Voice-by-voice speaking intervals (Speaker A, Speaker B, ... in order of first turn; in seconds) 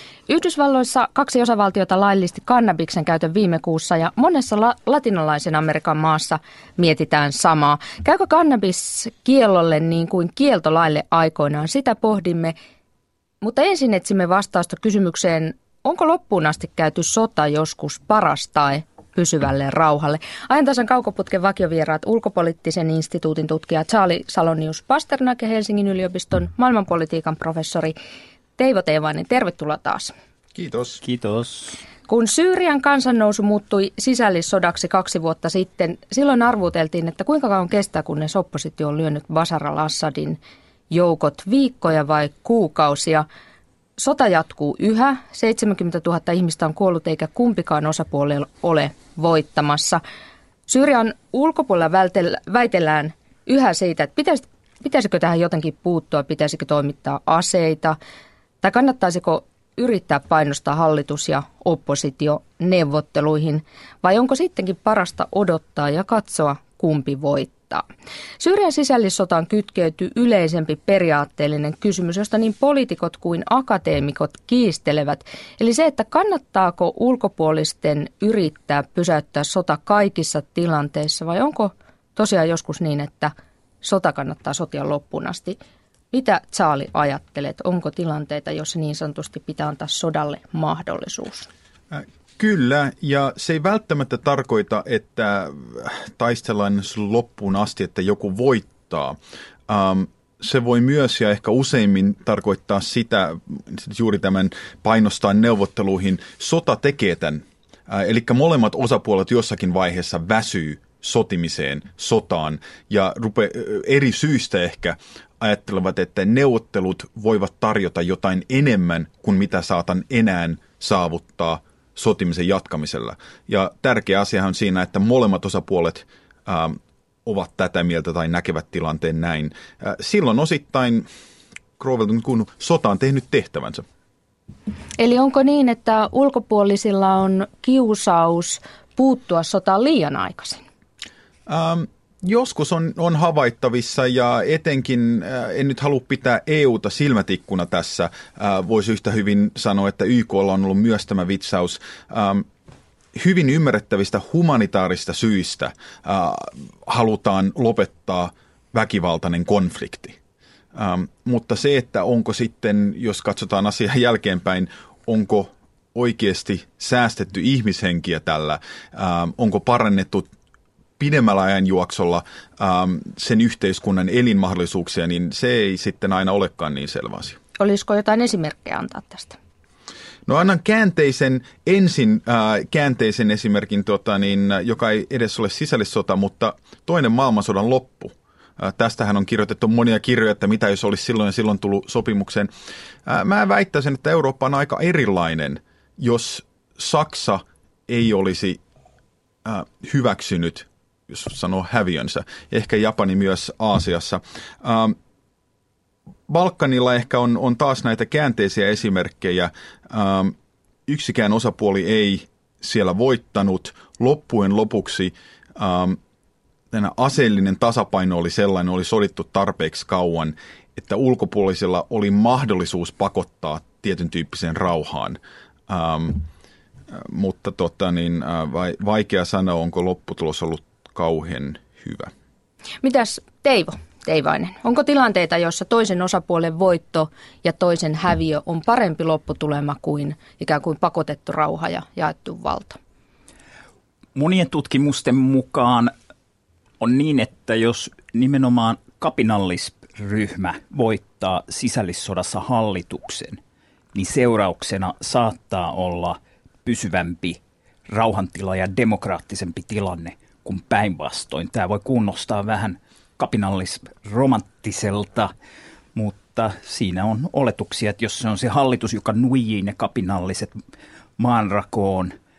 Speaker A: 0.3-12.6, 13.4-28.0, 28.6-30.1, 32.1-40.4, 40.9-43.3, 44.0-50.0, 50.7-58.0, 58.6-67.8, 68.4-85.6, 86.1-91.5, 135.0-140.6, 177.6-179.4, 232.8-242.8
Speaker B: 30.6-30.9, 91.9-99.2, 99.7-131.1, 131.8-133.8, 141.5-152.5, 153.2-160.2, 160.7-170.3, 171.0-177.4, 180.3-192.5, 193.1-198.6, 199.4-205.0, 206.3-210.3, 210.9-216.0, 216.7-226.2, 226.9-232.1
Speaker C: 31.0-31.8, 244.2-245.9, 246.8-253.4, 253.9-265.3, 265.9-270.6, 271.2-272.1